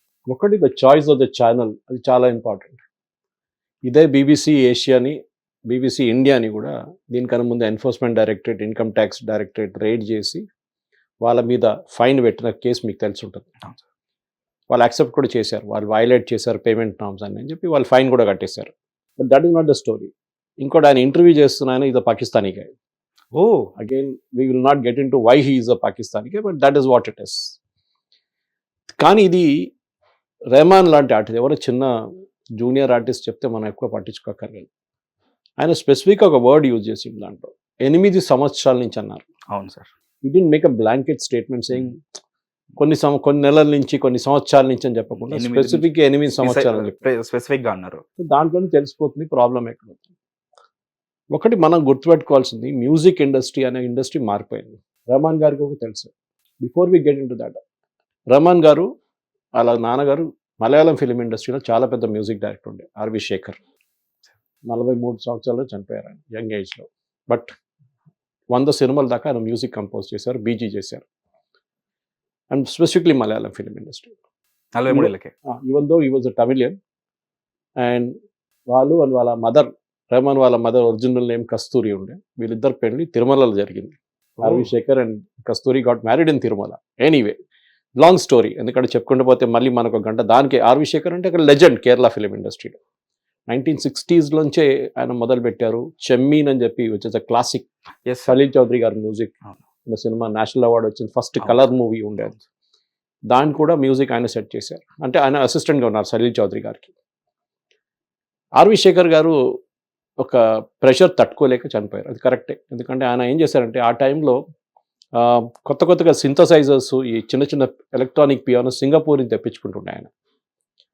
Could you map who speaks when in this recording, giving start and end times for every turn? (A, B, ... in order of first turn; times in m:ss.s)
0:00.3-0:02.8 A
0:03.8-0:05.2 A
0:05.7-0:10.4 A
0:11.2-0:13.5 A
0:14.7-0:22.7 A
0:23.3-0:23.7 B
0:23.8-0:27.6 A
0:29.0-0:29.7 A
0:30.5-0:31.9 A
0:32.5-0:34.7 A
0:35.6-0:39.2 A
0:39.5-0:39.9 B
0:40.2-0:42.0 A
0:42.8-0:47.0 A
0:45.2-0:48.0 B
0:48.2-0:50.1 A
0:51.3-0:57.6 A
0:58.3-0:58.9 A
0:59.6-1:03.6 A
1:04.6-1:07.5 A
1:08.5-1:11.0 A
1:12.5-1:14.1 A
1:14.7-1:15.3 B
1:14.9-1:16.8 A
1:17.8-1:18.1 A
1:18.7-1:27.4 A
1:24.4-1:24.7 B
1:28.0-1:32.8 A
1:33.5-1:37.7 A
1:38.0-1:38.3 B
1:38.3-1:39.3 A
1:39.8-1:42.4 A
1:43.3-1:46.9 A
1:48.6-1:49.4 A
1:50.2-1:54.4 A
1:55.2-2:00.1 A